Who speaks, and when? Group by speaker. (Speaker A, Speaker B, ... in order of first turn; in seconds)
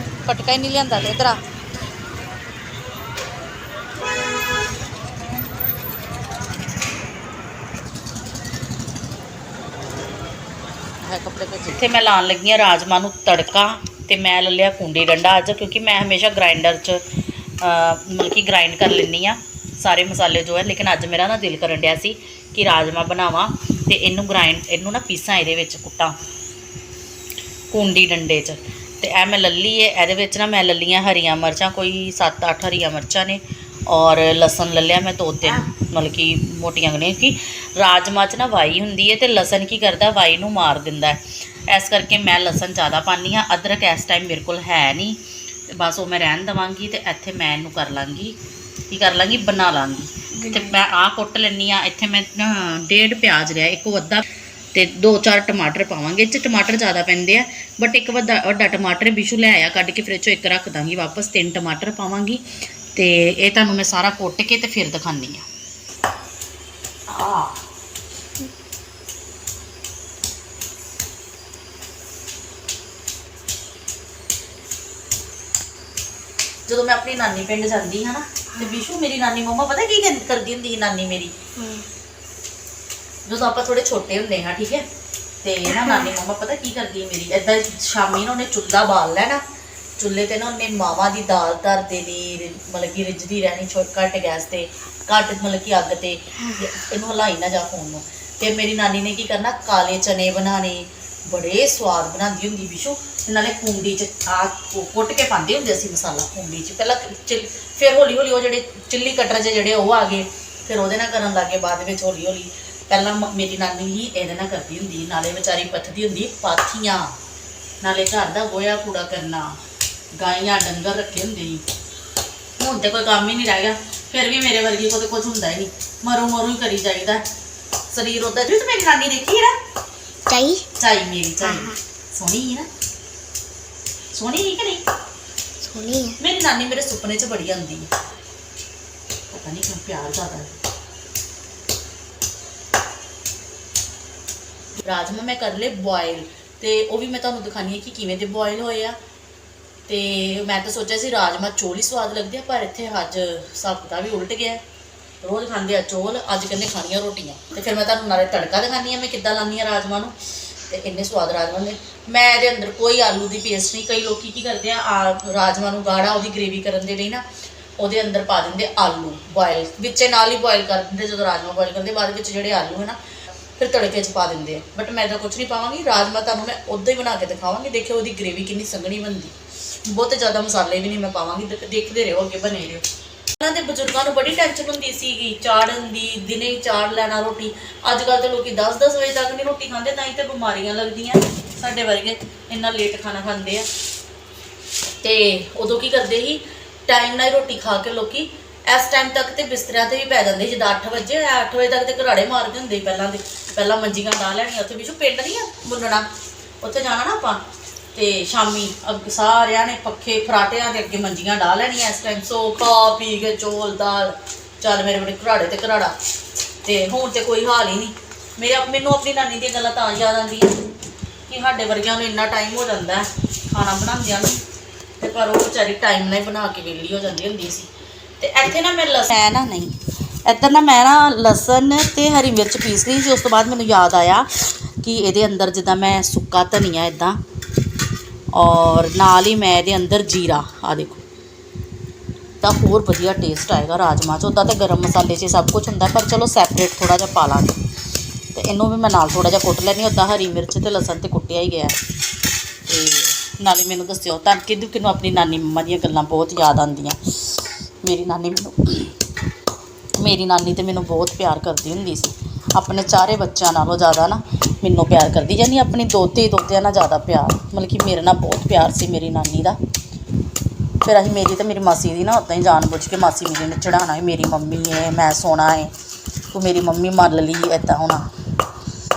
Speaker A: 0.2-1.4, 11.0-17.1, 17.6-26.2, 27.7-48.4, 48.9-65.5, 67.1-67.7, 76.7-81.3, 83.3-84.9, 85.4-89.4, 90.0-117.2, 117.8-119.6, 120.2-121.6, 122.6-127.2, 127.9-129.6, 130.8-132.7, 134.1-134.8, 136.2-137.9, 139.3-140.6, 144.8-149.0, 149.9-154.6, 155.2-160.2, 160.7-167.2, 167.8-173.0, 173.6-182.8, 183.4-193.7, 195.0-206.1, 206.6-216.0, 216.6-220.7, 221.3-224.4, 225.0-237.2, 238.3-241.1, 242.4-247.6, 248.3-251.8, 252.7-258.9, 260.0-269.6, 270.8-275.7, 276.3-278.1
Speaker B: 81.6-81.9, 85.8-86.1, 130.3-130.7, 131.4-131.8, 135.6-136.2